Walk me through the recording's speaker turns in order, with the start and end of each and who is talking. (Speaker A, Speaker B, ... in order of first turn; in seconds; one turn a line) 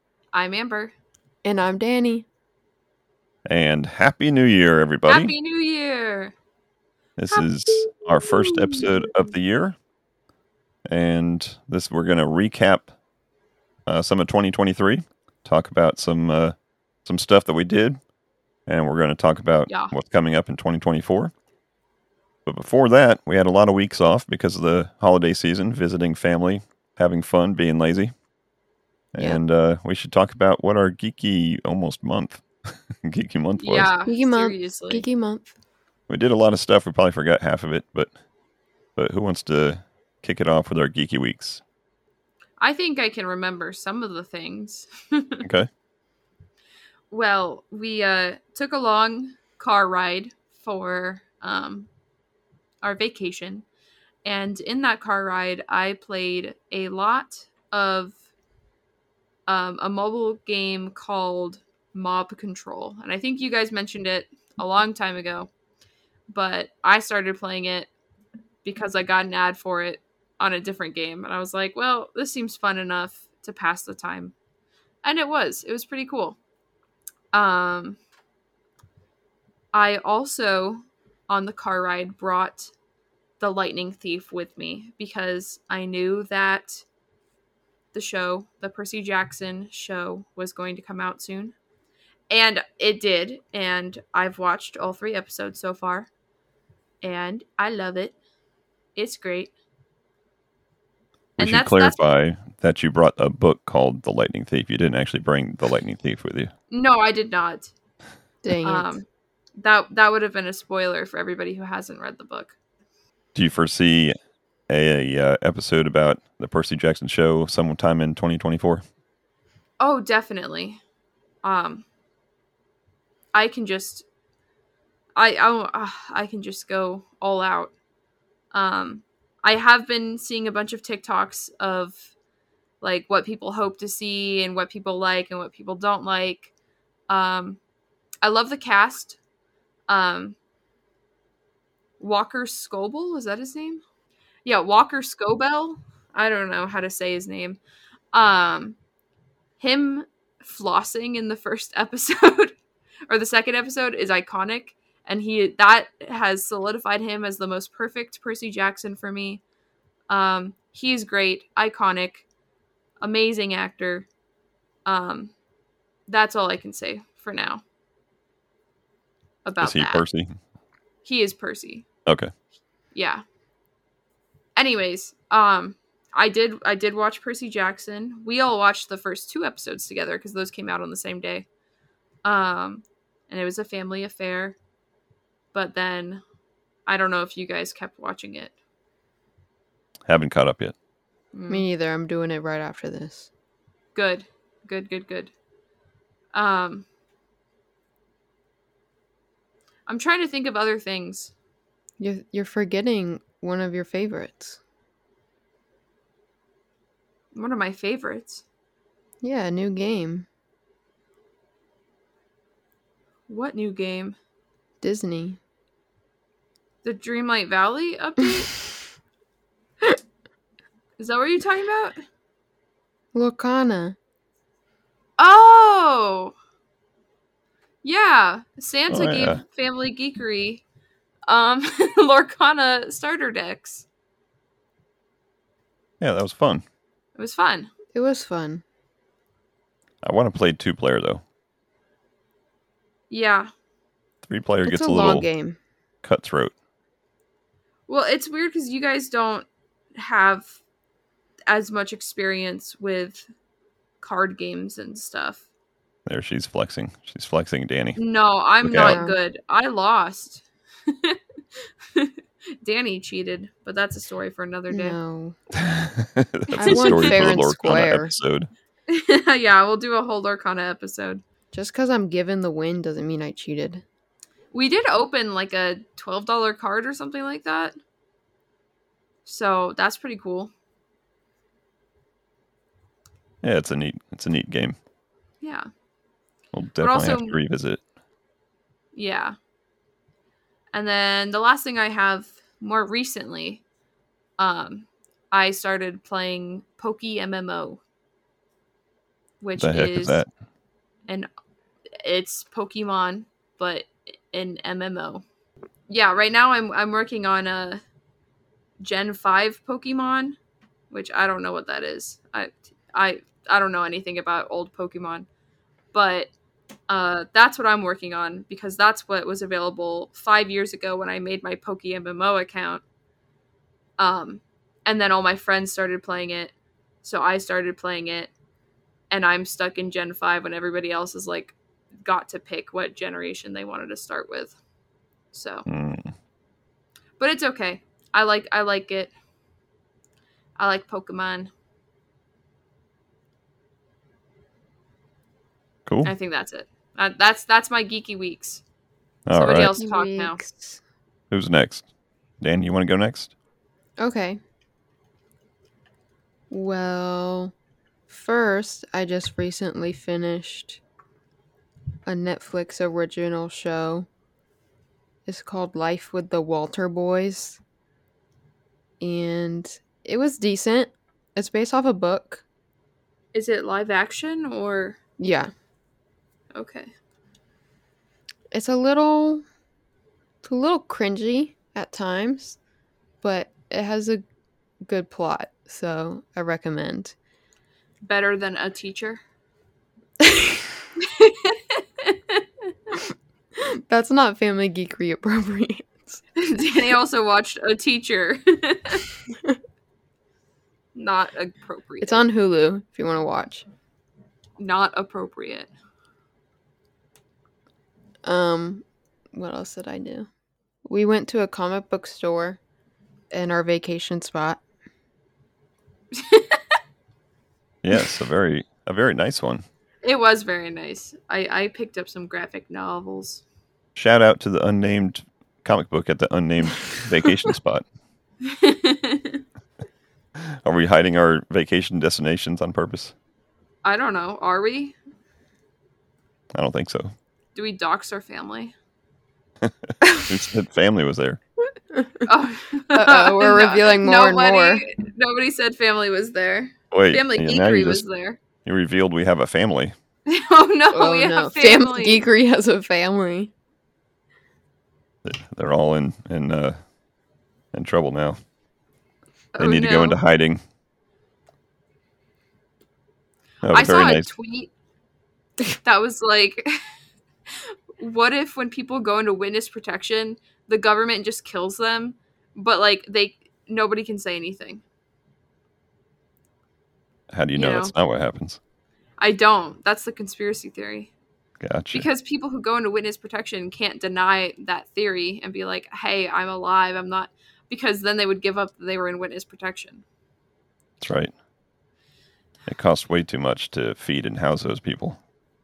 Speaker A: 0.3-0.9
Speaker B: 1.4-2.2
Speaker C: 3.5-5.3
Speaker A: 5.1-6.3
Speaker C: 7.2-9.8
Speaker A: 7.3-9.0
Speaker C: 10.8-12.9
Speaker C: 13.8-18.0
Speaker C: 18.7-21.3
Speaker A: 19.7-19.9
Speaker C: 22.4-28.1
Speaker C: 29.1-33.9
Speaker A: 33.6-35.0
Speaker B: 34.0-35.5
Speaker C: 36.1-38.1
Speaker C: 39.0-41.6
Speaker A: 42.6-45.4
Speaker C: 45.4-45.7
Speaker A: 47.1-51.9
Speaker A: 52.8-53.6
Speaker A: 54.2-58.1
Speaker A: 59.5-65.5
Speaker A: 66.3-67.9
Speaker A: 68.6-74.3
Speaker A: 75.0-76.4
Speaker A: 77.3-78.0
Speaker A: 79.7-82.7
Speaker A: 83.4-86.8
Speaker A: 87.9-91.5
Speaker A: 92.3-96.1
Speaker A: 97.0-98.2
Speaker A: 99.0-99.5
Speaker C: 101.4-106.5
Speaker A: 101.4-102.0
Speaker A: 106.7-107.7
Speaker B: 108.4-109.0
Speaker A: 108.6-109.0
Speaker A: 109.6-112.5
Speaker C: 113.3-114.1
Speaker C: 114.7-118.8
Speaker A: 119.8-120.8
Speaker A: 121.4-121.8
Speaker A: 123.3-124.0
Speaker A: 125.2-127.7
Speaker A: 128.5-132.0
Speaker A: 132.8-136.5
Speaker A: 137.1-137.6
Speaker A: 138.2-139.2
Speaker A: 139.9-140.3
Speaker A: 142.0-143.8
Speaker A: 144.4-147.6
Speaker A: 148.1-148.8
Speaker A: 149.6-152.6
Speaker A: 153.1-159.4
Speaker A: 160.1-162.2
Speaker A: 163.0-164.1
Speaker A: 164.8-165.3
Speaker A: 166.1-167.6
Speaker A: 169.4-170.0
Speaker C: 169.6-170.3
Speaker A: 171.0-171.8
Speaker C: 172.1-172.3
Speaker A: 172.9-173.2
Speaker A: 174.6-181.4
Speaker A: 182.2-184.6
Speaker A: 185.5-186.2
Speaker A: 186.8-188.5
Speaker C: 190.1-190.7
Speaker A: 191.3-191.6
Speaker B: 191.5-193.3
Speaker A: 193.9-195.3
Speaker A: 196.3-196.8
Speaker A: 199.9-201.3
Speaker B: 202.0-204.6
Speaker A: 207.3-208.4
Speaker B: 209.2-210.3
Speaker A: 213.3-214.2
Speaker B: 214.8-215.4
Speaker A: 216.8-218.5
Speaker A: 221.0-222.0
Speaker B: 223.1-224.0
Speaker A: 225.2-226.3
Speaker A: 227.8-230.6
Speaker C: 228.9-229.4
Speaker A: 231.3-233.8
Speaker C: 236.0-236.6
Speaker A: 237.2-237.7
Speaker B: 237.9-238.6
Speaker C: 240.0-241.2
Speaker A: 243.1-243.5
Speaker C: 244.2-245.3
Speaker B: 244.6-245.6
Speaker C: 246.0-246.5
Speaker A: 247.9-250.6
Speaker A: 251.5-253.2
Speaker A: 254.0-255.4
Speaker C: 256.1-258.0
Speaker A: 257.9-261.2
Speaker C: 258.6-259.0
Speaker B: 258.8-259.2
Speaker A: 261.9-265.0
Speaker B: 264.7-265.4
Speaker C: 265.6-268.5
Speaker A: 266.5-267.3
Speaker B: 266.6-268.1
Speaker A: 268.9-271.2
Speaker B: 271.5-273.8
Speaker A: 274.5-277.8
Speaker A: 279.2-280.5
Speaker C: 283.4-284.8
Speaker A: 285.4-285.7
Speaker C: 286.5-287.8
Speaker A: 286.8-287.4
Speaker A: 288.9-289.4
Speaker A: 290.7-293.6
Speaker A: 294.4-297.8
Speaker A: 299.4-300.2
Speaker C: 299.6-300.3
Speaker A: 302.0-305.2
Speaker A: 305.9-307.8
Speaker A: 308.8-310.4
Speaker A: 310.9-315.2
Speaker A: 315.9-316.3
Speaker A: 316.9-322.8
Speaker A: 324.0-328.3
Speaker A: 329.1-334.6
Speaker A: 335.3-335.6
Speaker C: 335.7-336.1
Speaker A: 337.2-339.1
Speaker A: 340.6-341.5
Speaker C: 345.9-346.1
Speaker A: 346.0-348.6
Speaker C: 349.3-349.7
Speaker A: 349.3-350.4
Speaker B: 349.8-350.8
Speaker C: 351.3-351.8
Speaker C: 352.4-353.3
Speaker B: 354.0-354.4
Speaker B: 356.5-357.5
Speaker B: 358.1-360.8
Speaker B: 362.1-364.1
Speaker B: 365.2-367.6
Speaker B: 369.0-372.4
Speaker A: 373.3-375.0
Speaker B: 375.2-375.5
Speaker A: 376.5-376.9
Speaker B: 378.5-379.4
Speaker B: 380.4-382.6
Speaker B: 383.2-384.2
Speaker B: 384.9-387.1
Speaker A: 388.1-389.2
Speaker B: 390.2-390.7
Speaker A: 391.1-392.4
Speaker B: 393.6-396.2
Speaker A: 396.4-399.0
Speaker B: 399.3-399.6
Speaker A: 400.9-402.2
Speaker B: 402.0-403.6
Speaker A: 404.6-405.7
Speaker B: 408.2-410.3
Speaker B: 410.9-412.6
Speaker B: 413.3-414.6
Speaker A: 416.1-416.6
Speaker C: 417.8-419.6
Speaker A: 420.0-423.4
Speaker C: 423.9-427.8
Speaker A: 428.4-429.4
Speaker C: 430.6-433.1
Speaker A: 433.8-434.9
Speaker C: 436.5-437.1
Speaker A: 437.5-438.7
Speaker C: 439.6-441.4
Speaker B: 440.0-440.3
Speaker B: 441.9-442.2
Speaker A: 442.2-448.4
Speaker B: 442.9-444.8
Speaker C: 446.9-448.0
Speaker C: 448.6-449.9
Speaker A: 450.3-452.2
Speaker B: 450.9-453.5
Speaker C: 455.2-456.8
Speaker C: 457.7-458.4
Speaker A: 459.5-460.2
Speaker C: 459.6-460.6
Speaker C: 463.6-464.3
Speaker A: 463.7-464.7
Speaker A: 465.6-466.8
Speaker A: 468.0-474.8
Speaker C: 477.3-478.6
Speaker A: 477.5-477.9
Speaker A: 479.2-481.1
Speaker C: 481.6-482.1
Speaker A: 481.9-490.0
Speaker C: 491.0-491.3
Speaker C: 492.7-495.2